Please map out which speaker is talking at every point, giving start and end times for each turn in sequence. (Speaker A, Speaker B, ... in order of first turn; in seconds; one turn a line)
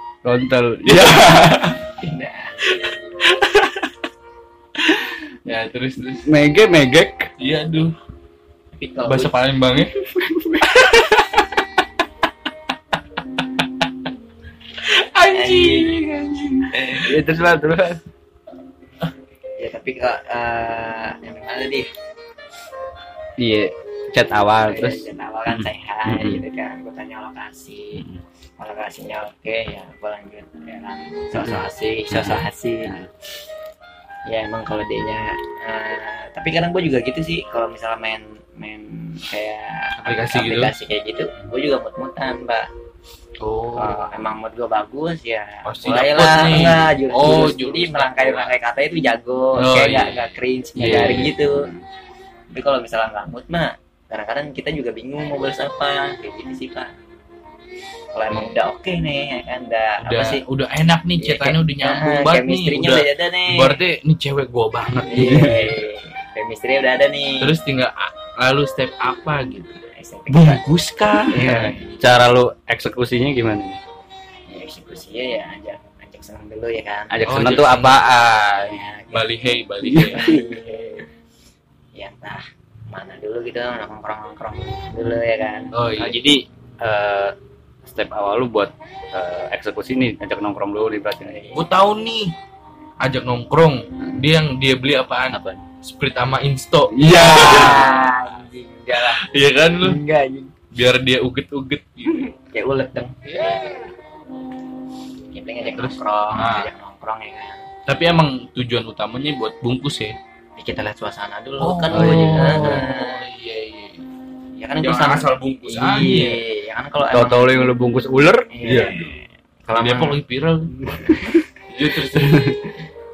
Speaker A: 0.2-1.8
Speaker B: 0.9-1.8
Speaker C: 2.0-2.8
Speaker B: 3.3-3.7
Speaker B: 4.9-6.3
Speaker A: 6.2-7.3
Speaker B: 7.4-8.0
Speaker C: 8.8-9.3
Speaker B: 9.1-10.1
Speaker A: 10.0-11.4
Speaker B: 14.8-17.2
Speaker C: 15.3-16.0
Speaker A: 16.8-18.0
Speaker C: 19.6-21.9
Speaker A: 23.4-26.4
Speaker C: 24.6-28.1
Speaker A: 27.9-28.2
Speaker C: 28.6-32.9
Speaker A: 31.3-33.1
Speaker C: 34.3-42.7
Speaker B: 40.0-40.8
Speaker B: 43.4-44.3
Speaker C: 43.8-51.7
Speaker B: 45.7-48.6
Speaker B: 49.6-51.3
Speaker A: 50.8-51.9
Speaker C: 52.5-56.9
Speaker C: 58.1-60.4
Speaker B: 58.3-58.6
Speaker B: 60.0-65.8
Speaker C: 61.2-63.8
Speaker C: 65.0-67.5
Speaker A: 65.1-65.8
Speaker B: 67.4-71.8
Speaker C: 69.9-70.7
Speaker C: 71.3-72.1
Speaker A: 71.5-73.8
Speaker C: 74.5-77.2
Speaker A: 77.1-78.8
Speaker B: 77.2-78.1
Speaker C: 78.6-79.3
Speaker B: 79.1-80.4
Speaker C: 80.0-81.1
Speaker C: 82.0-85.7
Speaker B: 85.7-86.2
Speaker A: 86.0-91.5
Speaker C: 91.2-91.7
Speaker B: 91.5-92.3
Speaker B: 93.0-98.0
Speaker A: 95.3-95.7
Speaker A: 96.9-98.3
Speaker C: 97.0-99.2
Speaker B: 99.0-100.0
Speaker C: 99.8-100.5
Speaker B: 100.7-102.3
Speaker C: 102.4-103.2
Speaker B: 103.2-103.9
Speaker C: 105.3-107.7
Speaker B: 105.7-106.7
Speaker B: 107.9-110.2
Speaker C: 110.6-113.3
Speaker B: 111.6-114.0
Speaker A: 111.9-112.8
Speaker C: 114.5-117.8
Speaker B: 114.8-116.4
Speaker A: 117.1-119.0
Speaker C: 118.5-120.2
Speaker B: 118.6-119.2
Speaker B: 119.7-122.6
Speaker C: 120.9-121.3
Speaker A: 122.1-122.6